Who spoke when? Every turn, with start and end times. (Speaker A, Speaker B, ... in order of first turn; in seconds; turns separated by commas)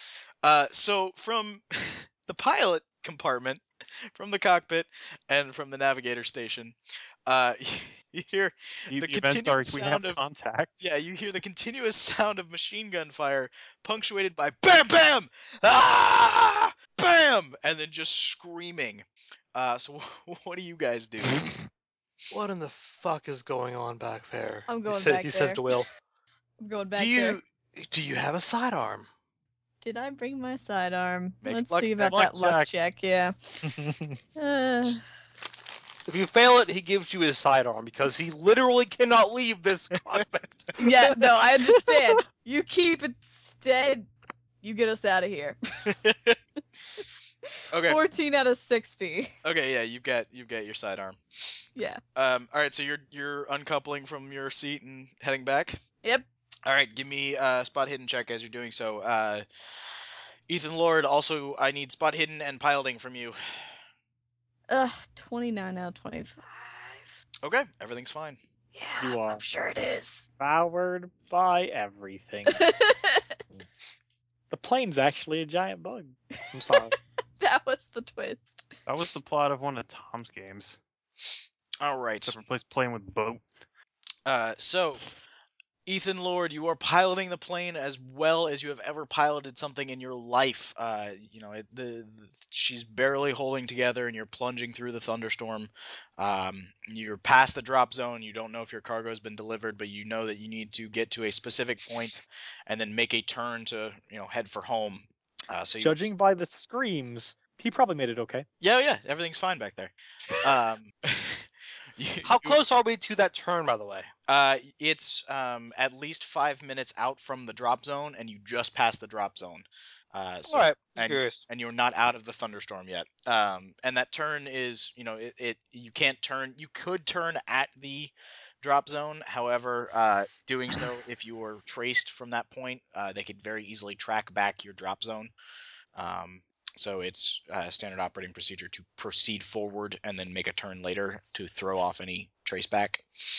Speaker A: 0.4-3.6, Speaker A: 4.2-10.2, Speaker B: 8.9-10.7, Speaker A: 10.8-21.5, Speaker C: 22.3-25.9, Speaker D: 24.7-25.7, Speaker D: 26.6-27.4, Speaker C: 27.0-29.1, Speaker D: 29.8-33.7, Speaker A: 31.4-32.2, Speaker B: 32.0-32.7, Speaker E: 33.7-34.1, Speaker D: 34.4-35.0, Speaker C: 36.1-40.8, Speaker D: 40.8-44.1, Speaker D: 44.6-45.6, Speaker A: 45.9-46.4, Speaker A: 47.7-48.0, Speaker D: 47.9-49.3, Speaker A: 49.4-51.2, Speaker A: 52.2-55.8, Speaker A: 56.7-59.5, Speaker A: 60.5-63.4, Speaker D: 64.7-67.2, Speaker A: 67.4-68.4, Speaker D: 68.7-70.3, Speaker E: 69.0-69.4, Speaker E: 70.4-72.7, Speaker D: 72.5-73.3, Speaker E: 74.5-77.0, Speaker D: 77.4-78.7, Speaker B: 78.9-80.8, Speaker A: 81.8-82.4, Speaker B: 82.3-83.5, Speaker A: 84.3-85.0, Speaker A: 85.9-106.0, Speaker E: 105.8-108.5, Speaker A: 108.6-111.5, Speaker A: 112.0-112.6, Speaker C: 112.2-114.1, Speaker A: 114.3-135.3, Speaker C: 120.5-121.4, Speaker A: 135.9-143.1